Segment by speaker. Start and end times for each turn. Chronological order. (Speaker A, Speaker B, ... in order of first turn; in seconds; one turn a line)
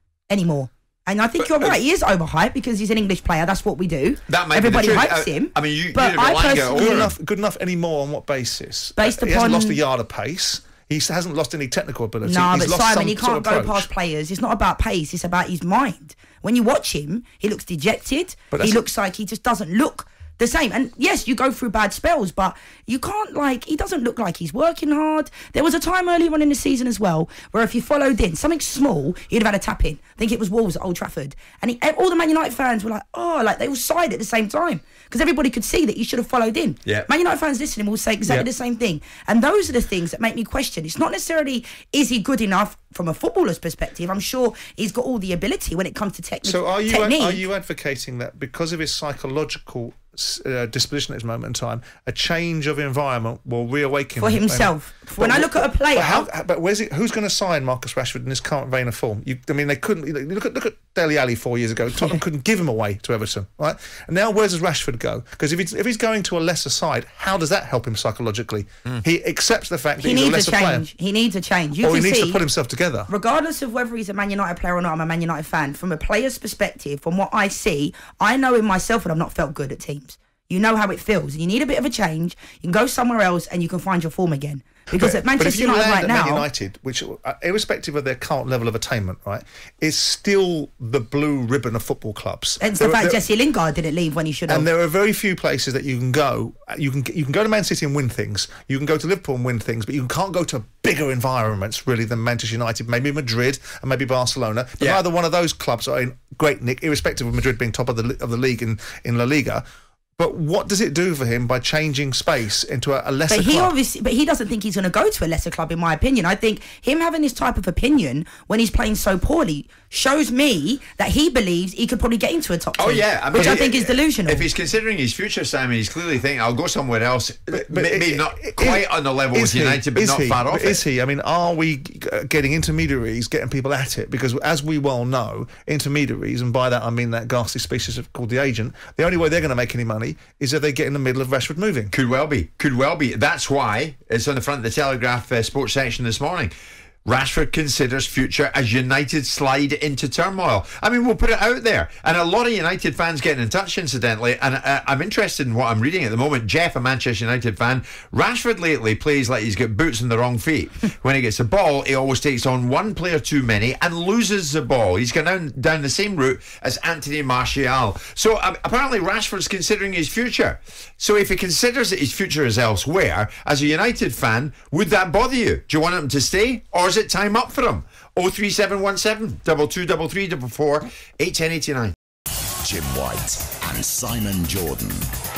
Speaker A: 0.3-7.1
Speaker B: 1.4-1.8
Speaker B: 4.3-7.2
Speaker C: 6.7-13.9
Speaker A: 8.9-9.8
Speaker A: 12.2-47.4
Speaker C: 18.5-18.8
Speaker C: 46.4-70.8
Speaker A: 54.2-56.3
Speaker A: 70.0-72.4
Speaker C: 71.8-73.1
Speaker A: 73.1-86.5
Speaker C: 84.9-93.2
Speaker A: 92.6-94.7
Speaker C: 94.5-109.6
Speaker C: 110.2-113.7
Speaker A: 113.3-124.5
Speaker B: 122.8-130.8
Speaker C: 127.5-141.9
Speaker B: 141.9-146.5
Speaker B: 147.1-181.9
Speaker D: 182.6-185.1